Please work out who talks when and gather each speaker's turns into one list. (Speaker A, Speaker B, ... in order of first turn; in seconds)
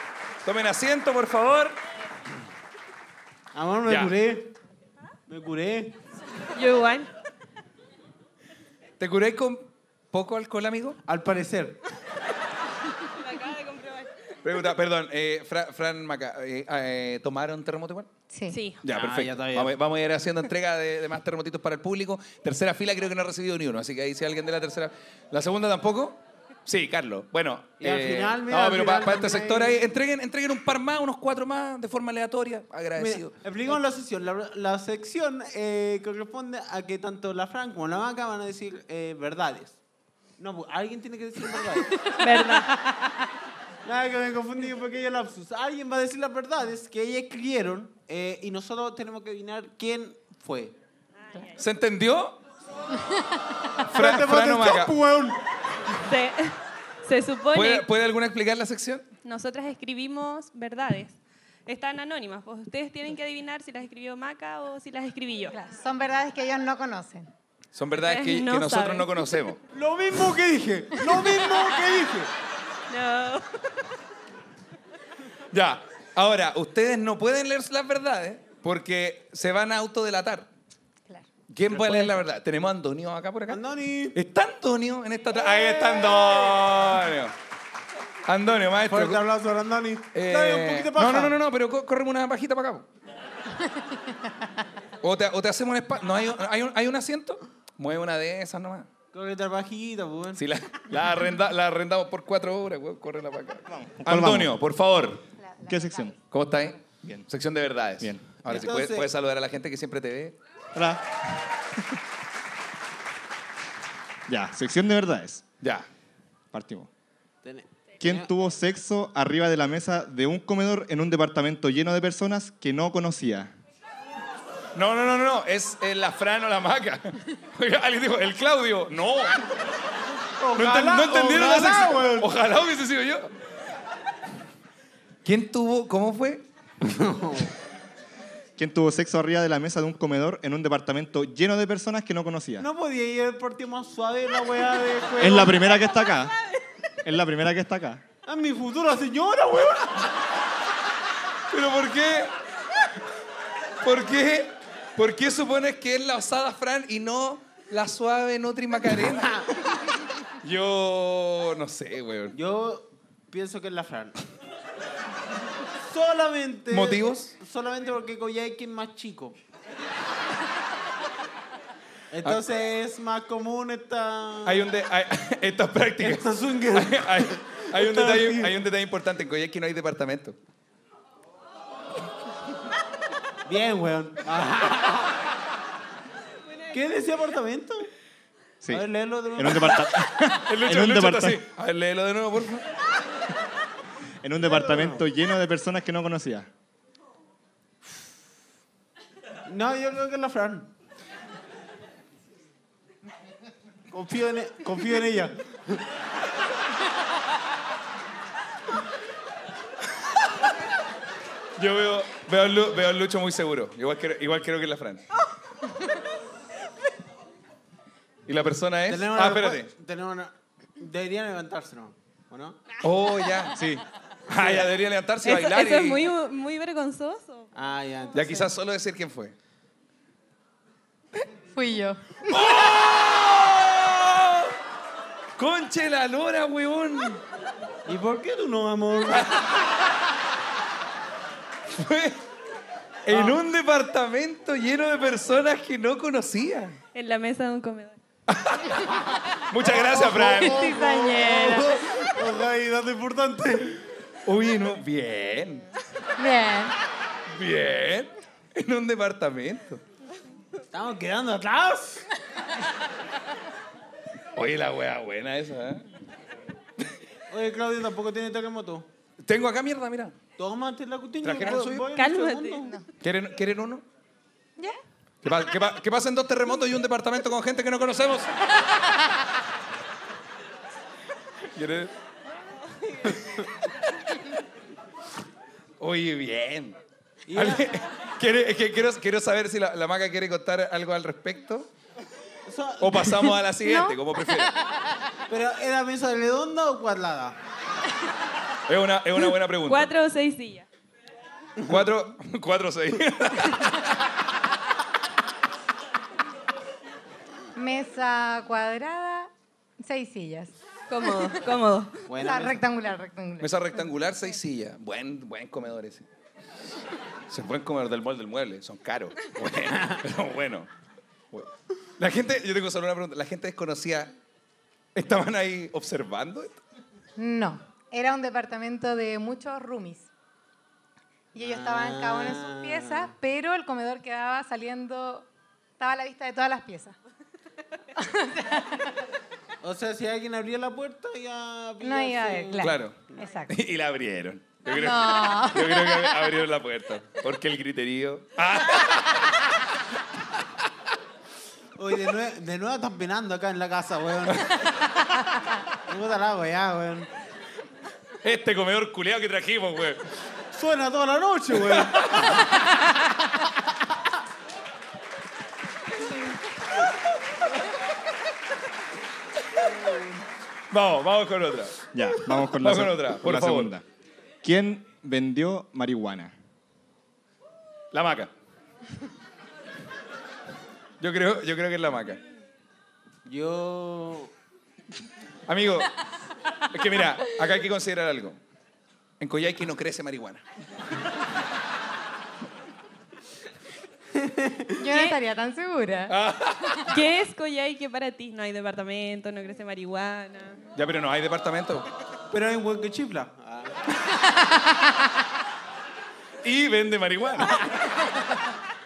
Speaker A: 0.4-1.8, 3.9-4.1, 9.0-11.0, 14.4-18.1, 18.8-33.8, 51.6-52.4, 53.9-55.0, 57.5-59.0, 67.7-69.6, 75.5-80.5, 81.5-83.6, 84.1-87.3, 88.2-89.2, 90.1-92.9, 95.0-98.9, 100.3-105.2, 106.3-110.4, 115.6-115.9, 124.8-129.5, 130.6-133.3, 135.2-136.4, 151.5-152.3, 153.8-159.4, 160.4-162.4, 166.7-167.3, 174.4-180.4, 190.4-192.7, 211.6-215.0, 218.3-219.7, 222.8-226.1, 228.1-229.3, 232.3-234.6, 235.4-237.2, 241.7-242.2, 243.1-246.8, 248.3-248.8, 249.5-250.7, 254.3-255.6, 257.3-259.8, 264.4-265.9, 269.2-270.1, 271.2-271.9, 273.0-273.8, 275.2-278.3, 281.6-281.9, 285.8-286.8, 287.4-291.7, 292.8-294.6, 298.7-299.9, 301.7-303.8, 313.4-316.1, 317.3-320.7, 321.3-324.1, 324.9-326.6, 342.6-349.5, 358.2-360.1, 361.7-362.4, 370.7-371.8, 372.4-373.8, 377.9-378.3, 381.0-382.2, 385.5-385.9, 386.7-388.4, 389.2-390.4, 396.1-396.9, 400.8-401.9, 406.4-407.6
Speaker B: 3.5-4.5, 5.3-6.0, 11.1-11.8, 18.8-19.8, 27.8-29.8, 33.0-39.8, 40.4-42.0, 43.8-50.8, 53.9-55.4, 69.7-72.3, 81.7-82.1, 83.5-84.2, 88.9-91.4, 99.1-100.4, 108.5-109.1, 117.4-118.3, 130.4-132.3, 136.8-137.5, 142.6-145.6, 148.3-150.2, 159.0-159.4, 162.3-164.2, 165.8-169.4, 172.1-174.7, 176.0-178.6, 183.4-185.2, 186.7-187.9, 188.7-189.8, 194.4-195.0, 199.4-200.7, 203.9-205.8, 218.9-222.7, 224.3-224.7, 227.6-228.5, 237.9-239.3, 243.1-243.4, 249.6-253.8, 260.7-262.1, 267.3-268.9, 270.4-272.8, 287.3-287.8, 292.5-293.4, 295.3-297.4, 312.1-312.6, 331.4-333.1, 339.6-343.3, 351.8-354.7, 355.9-357.1, 360.5-362.5, 383.3-384.3, 394.1-394.8, 402.3-403.8
Speaker C: 6.5-7.1, 13.0-14.1, 18.5-18.8, 42.2-42.7, 51.2-51.6, 56.0-57.9, 59.2-65.6, 68.0-69.2, 72.9-73.5, 225.2-227.5, 246.9-248.0, 250.2-251.8, 271.9-272.7, 282.7-283.2, 299.7-300.7, 310.9-312.0, 394.9-395.2, 396.9-400.6
Speaker D: 18.3-18.6, 53.0-53.7, 65.6-67.3, 105.4-106.1, 231.4-232.5, 256.2-256.8, 293.6-294.5, 307.6-310.5, 312.2-313.7, 327.2-330.1, 331.3-335.3, 335.8-336.9, 338.0-338.9, 341.8-343.6, 344.7-346.2, 394.8-396.2
Speaker E: 103.7-104.5, 105.7-106.2, 108.0-108.7, 110.7-111.2, 114.3-115.4, 116.5-116.9, 118.0-123.5, 138.6-142.7, 145.2-146.3, 147.0-148.0, 188.6-191.4, 194.2-196.5, 371.9-373.8, 374.4-376.3